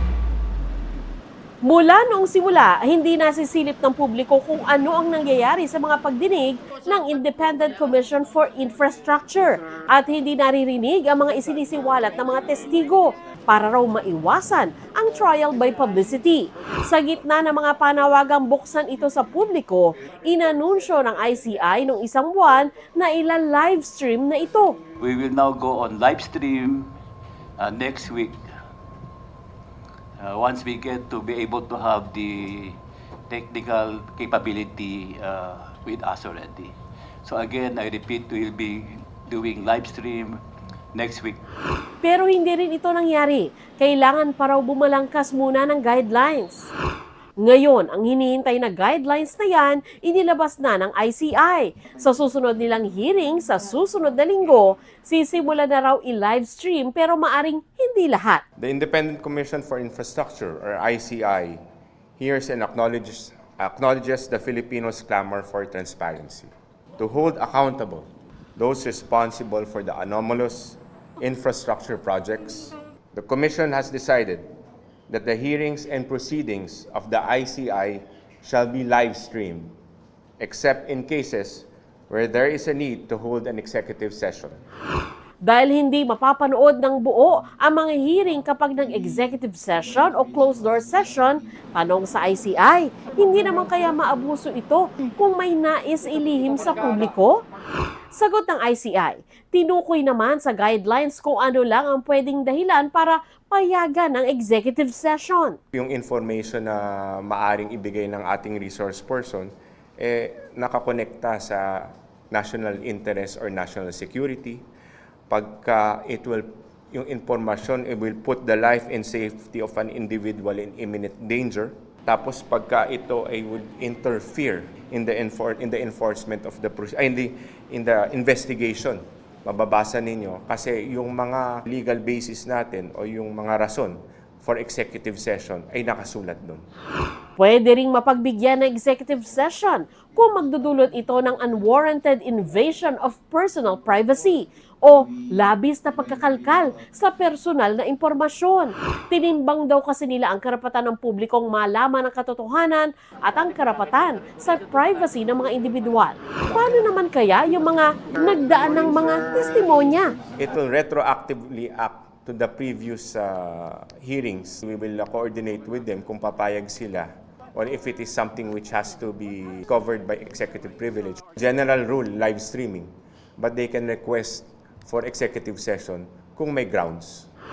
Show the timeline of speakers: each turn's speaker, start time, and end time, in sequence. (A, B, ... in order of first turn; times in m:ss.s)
0:01.6-0:24.8 A
0:25.0-0:27.0 B
0:27.6-0:28.4 B
0:30.2-0:40.4 B
0:40.9-0:41.4 B
0:42.0-0:46.7 A
0:47.4-0:58.4 A
0:58.6-1:01.6 C
1:02.2-1:14.5 C
1:15.1-1:19.7 C
1:20.4-1:24.6 C
1:25.4-1:37.4 A
1:38.1-1:45.6 A
1:45.7-1:54.6 C
1:55.3-2:16.6 C
2:17.4-2:40.1 A
2:40.4-2:57.3 C